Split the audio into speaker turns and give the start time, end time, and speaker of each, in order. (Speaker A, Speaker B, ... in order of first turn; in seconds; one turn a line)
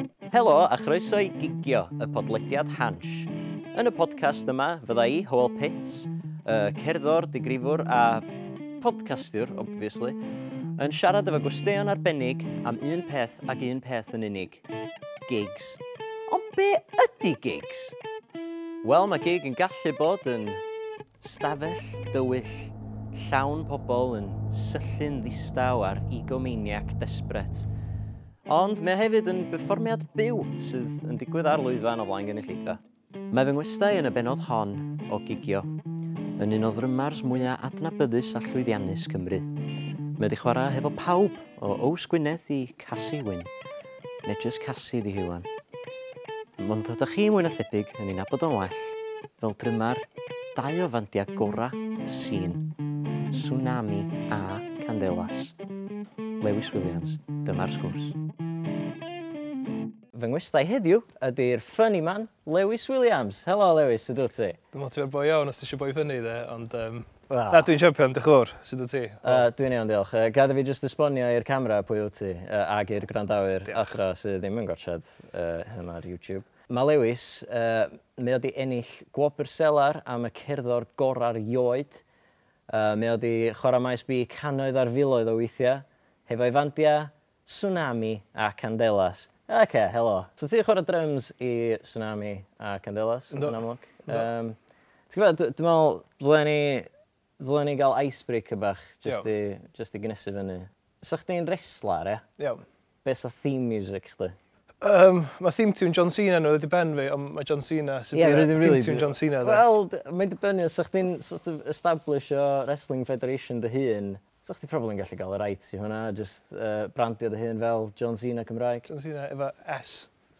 Speaker A: 0.3-8.3
Speaker A: 8.8-10.2
Speaker A: 10.8-14.6
Speaker A: 15.2-18.0
Speaker A: 18.8-20.6
Speaker A: 21.2-27.7
Speaker A: 28.5-35.7
Speaker A: 36.4-39.5
Speaker A: 40.2-43.5
Speaker A: 44.2-45.5
Speaker A: 46.6-52.7
Speaker A: 53.3-55.5
Speaker A: 56.4-58.2
Speaker A: 60.1-64.6
Speaker B: 64.7-69.5
Speaker A: 67.3-67.7
Speaker A: 69.2-82.0
Speaker B: 73.7-74.0
Speaker A: 82.7-94.6
Speaker B: 93.3-94.3
Speaker A: 95.1-102.2
Speaker A: 103.0-104.3
Speaker B: 104.8-109.6
Speaker A: 108.1-118.8
Speaker B: 118.9-120.1